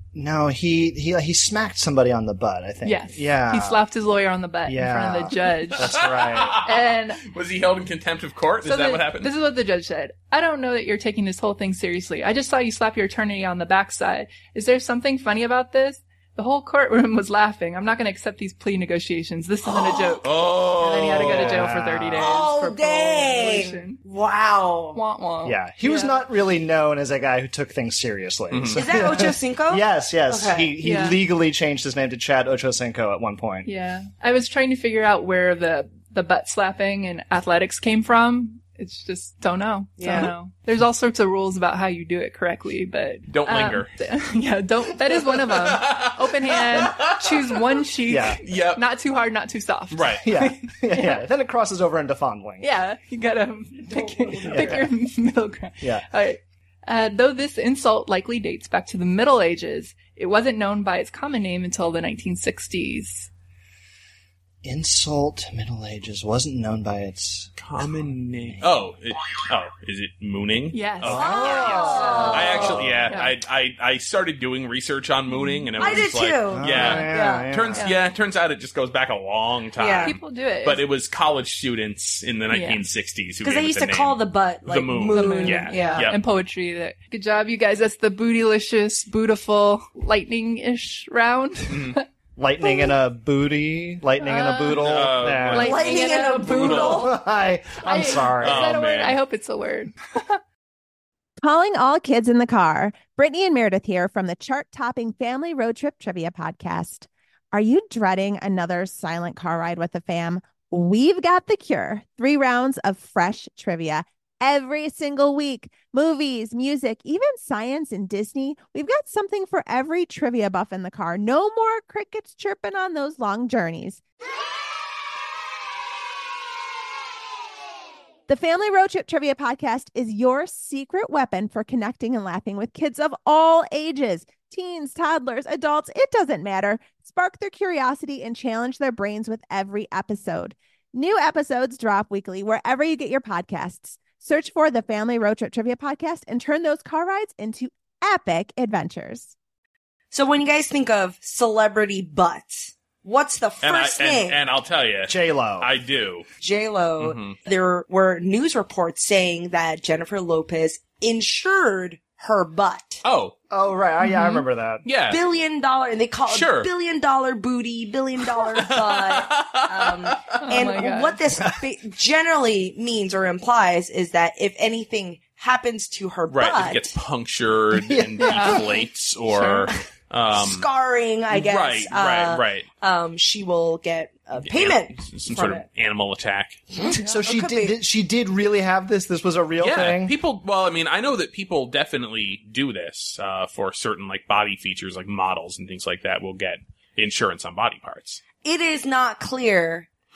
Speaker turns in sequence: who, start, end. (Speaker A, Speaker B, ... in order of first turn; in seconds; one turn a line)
Speaker A: 0.1-3.8
Speaker B: 2.8-5.9
Speaker A: 4.7-6.6
Speaker C: 5.8-9.3
Speaker B: 6.6-7.3
Speaker B: 8.6-24.0
Speaker D: 19.7-20.2
Speaker C: 20.2-21.7
Speaker A: 21.0-22.4
Speaker D: 22.1-25.0
Speaker B: 24.9-26.2
Speaker A: 25.4-33.7
Speaker C: 28.5-28.9
Speaker D: 28.7-30.7
Speaker B: 30.8-31.2
Speaker B: 33.6-51.2
Speaker D: 40.0-40.3
Speaker C: 43.3-43.9
Speaker C: 45.1-47.8
Speaker A: 48.1-48.4
Speaker C: 48.4-48.9
Speaker C: 49.9-50.2
Speaker A: 50.2-52.7
Speaker B: 52.6-63.3
Speaker D: 54.2-54.5
Speaker A: 54.5-54.9
Speaker A: 64.6-68.7
Speaker C: 67.6-86.2
Speaker B: 70.7-72.4
Speaker A: 71.0-73.1
Speaker D: 71.1-72.8
Speaker B: 73.1-73.3
Speaker B: 75.3-76.0
Speaker D: 75.8-77.5
Speaker A: 76.5-77.9
Speaker D: 79.8-80.2
Speaker B: 80.0-80.8
Speaker B: 82.5-82.9
Speaker D: 83.4-86.1
Speaker B: 85.1-92.0
Speaker C: 91.7-92.0
Speaker A: 92.4-95.9
Speaker B: 92.6-92.9
Speaker B: 94.2-94.9
Speaker C: 94.7-97.0
Speaker B: 95.5-97.1
Speaker D: 95.5-97.1
Speaker A: 96.8-98.7
Speaker B: 97.8-100.4
Speaker C: 98.4-99.2
Speaker E: 101.4-124.0
Speaker E: 128.3-149.3
Speaker D: 150.1-154.4
Speaker C: 153.6-156.3
Speaker A: 155.1-155.7
Speaker D: 156.4-163.0
Speaker C: 157.0-157.4
Speaker C: 163.0-163.3
Speaker A: 163.5-164.8
Speaker B: 164.0-164.4
Speaker C: 164.8-165.2
Speaker D: 165.1-176.9
Speaker C: 166.3-166.7
Speaker C: 168.4-170.4
Speaker B: 170.4-171.2
Speaker C: 176.3-180.7
Speaker A: 177.9-178.6
Speaker B: 178.2-179.8
Speaker D: 180.3-185.7
Speaker C: 181.3-182.7
Speaker C: 184.4-186.7
Speaker D: 186.7-187.8
Speaker A: 186.9-190.2
Speaker B: 186.9-187.2
Speaker C: 189.6-198.2
Speaker D: 198.4-199.9